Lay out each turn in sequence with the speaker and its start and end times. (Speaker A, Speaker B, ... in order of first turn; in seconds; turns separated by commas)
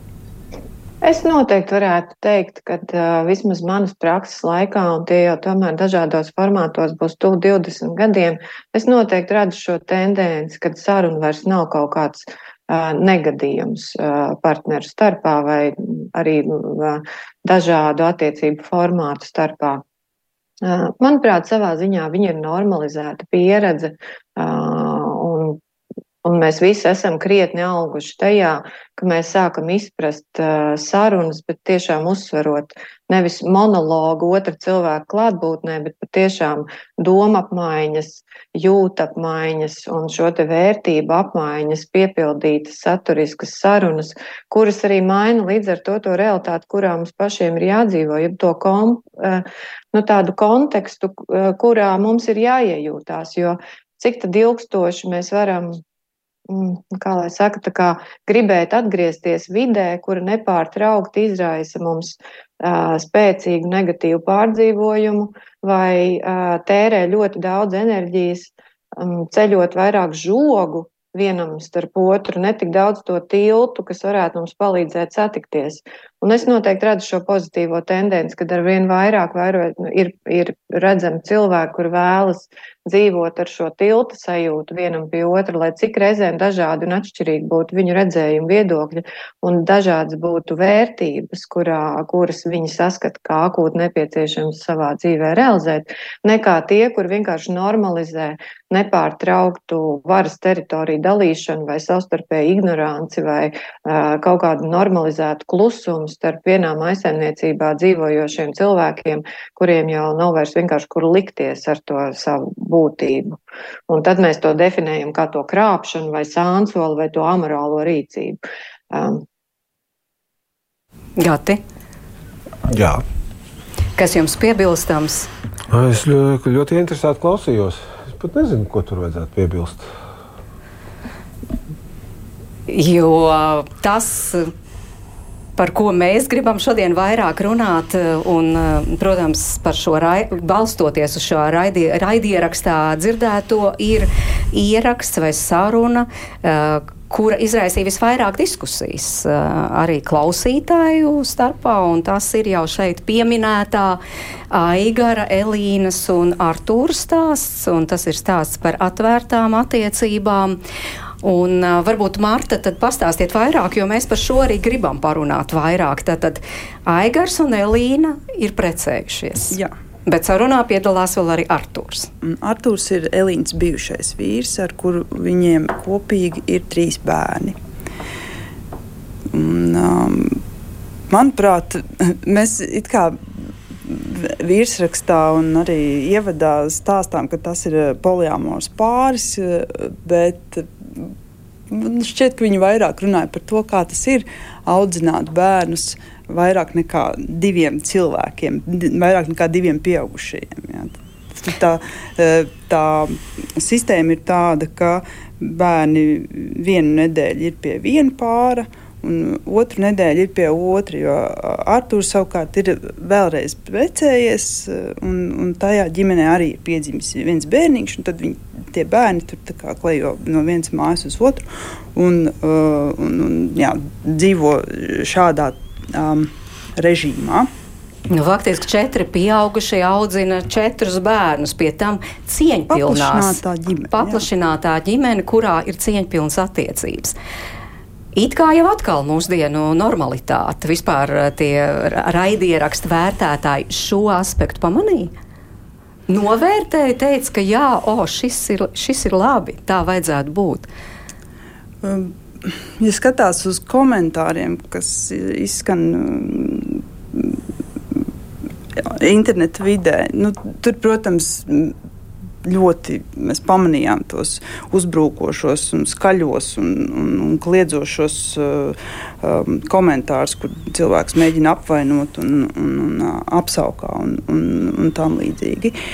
Speaker A: 1.0-19.8, Speaker A: 20.6-25.6, Speaker A: 26.2-55.8, Speaker A: 56.5-113.4, Speaker A: 113.9-118.4, Speaker A: 118.9-119.2, Speaker B: 121.2-121.6, Speaker C: 122.7-123.0, Speaker B: 124.0-125.3, Speaker C: 125.7-129.9, Speaker B: 132.7-134.5, Speaker B: 135.6-154.0, Speaker B: 154.5-160.6, Speaker B: 161.2-172.1, Speaker D: 172.2-177.6, Speaker D: 179.3-180.4, Speaker D: 181.1-183.3, Speaker D: 183.8-191.1, Speaker D: 191.7-227.5, Speaker B: 228.1-233.4, Speaker D: 232.7-234.2, Speaker B: 233.9-237.2, Speaker B: 238.1-245.1, Speaker B: 246.1-250.7, Speaker D: 251.8-257.4, Speaker D: 258.8-261.8, Speaker D: 262.4-275.8